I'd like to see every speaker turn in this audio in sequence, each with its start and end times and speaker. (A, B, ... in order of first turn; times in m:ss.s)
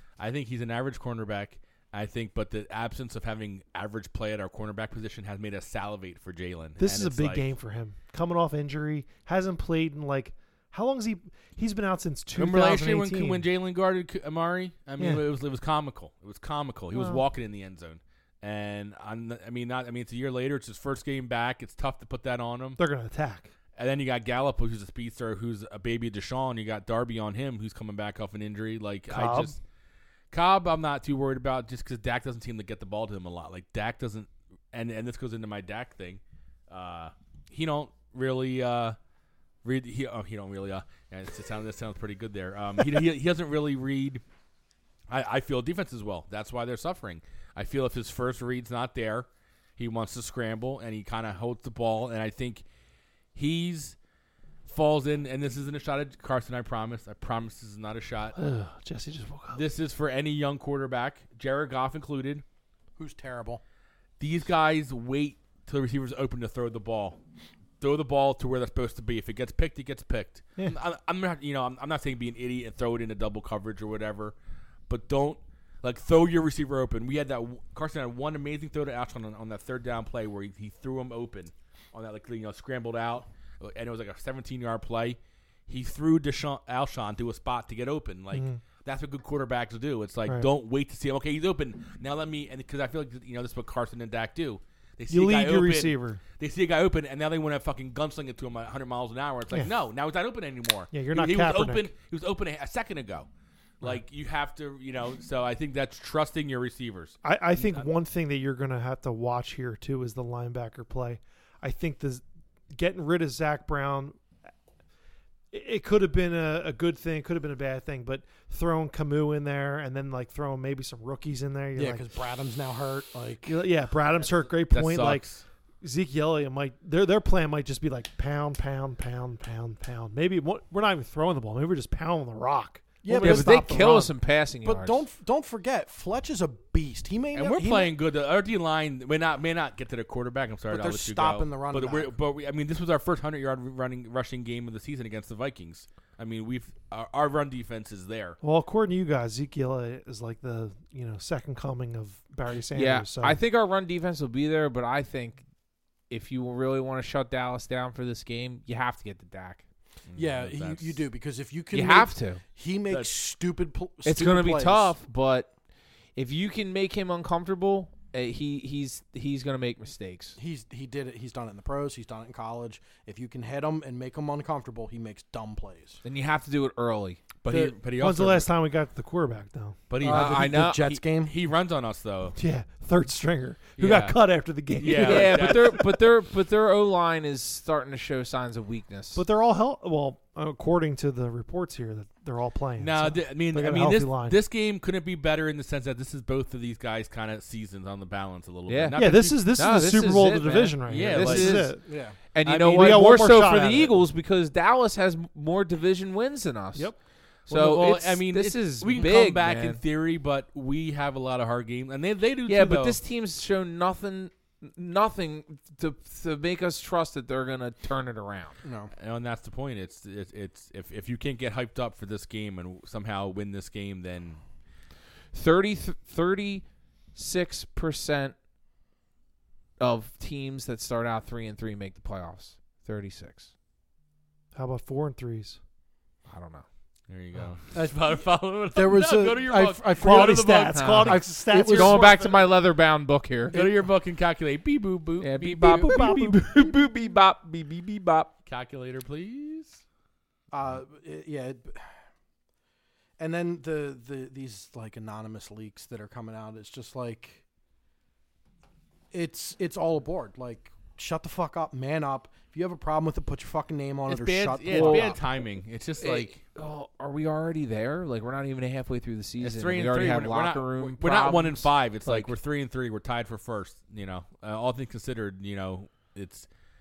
0:00.2-0:07.4 A
0:06.8-0:13.4 B
0:12.4-0:22.8 A
0:15.0-0:15.2 B
0:17.0-0:17.2 B
0:22.8-0:23.5 B
0:23.7-0:29.6 A
0:29.1-0:29.6 B
0:30.3-0:39.0 A
0:39.6-0:44.2 A
0:45.1-0:52.6 A
0:53.3-0:54.0 A
0:54.7-0:58.4 A
0:58.3-0:59.6 B
0:59.5-1:02.4 A
1:03.0-1:03.6 C
1:04.2-1:07.2 A
1:07.8-1:14.3 A
1:14.9-1:43.3 A
1:28.3-1:28.6 B
1:35.1-1:36.2 B
1:40.9-1:41.9 B
1:43.8-1:47.8 A
1:47.2-1:54.2 B
1:55.5-2:02.0 B
2:01.8-2:03.6 C
2:03.4-2:05.3 B
2:04.7-2:05.4 A
2:05.8-2:14.1 B
2:13.0-2:13.6 C
2:13.2-2:15.0 D
2:14.6-2:17.9 C
2:17.3-2:28.4 A
2:20.7-2:22.1 C
2:28.4-2:33.4 B
2:32.7-2:35.4 D
2:36.1-2:39.6 D
2:40.1-2:41.0 A
2:40.1-2:44.9 C
2:41.7-2:42.4 D
2:44.0-2:45.5 D
2:46.1-2:50.4 D
2:50.4-2:56.0 C
2:56.0-2:57.2 D
2:57.4-2:58.5 A
2:57.5-2:57.7 C
2:58.0-2:59.8 B
2:59.9-3:02.4 A
3:00.0-3:01.3 C
3:00.0-3:00.9 D
3:02.4-3:05.7 B
3:03.8-3:04.2 A
3:04.8-3:06.0 A
3:04.8-3:09.2 D
3:09.1-3:14.4 B
3:12.8-3:19.4 A
3:18.7-3:27.0 D
3:18.9-3:21.8 B
3:20.8-3:21.8 A
3:21.9-3:22.2 C
3:22.4-3:23.1 A
3:22.4-3:24.0 B
3:27.5-3:29.8 D
3:27.5-3:33.0 A
3:32.4-3:38.6 D
3:38.6-3:38.9 C
3:39.0-3:44.4 A
3:45.3-3:48.4 D
3:49.8-3:53.5 D
3:54.6-3:55.6 B
3:56.3-3:56.6 D
3:57.1-4:00.8 A
3:57.7-4:02.2 C
4:00.0-4:02.5 B
4:00.7-4:03.7 D
4:03.5-4:06.2 A
4:05.2-4:08.3 D
4:05.6-4:06.7 B
4:08.4-4:09.8 A
4:10.5-4:11.9 C
4:13.2-4:17.4 C
4:19.1-4:25.2 C
4:24.1-4:26.4 A
4:24.7-4:25.1 D
4:26.0-4:32.3 D
4:29.4-4:36.5 A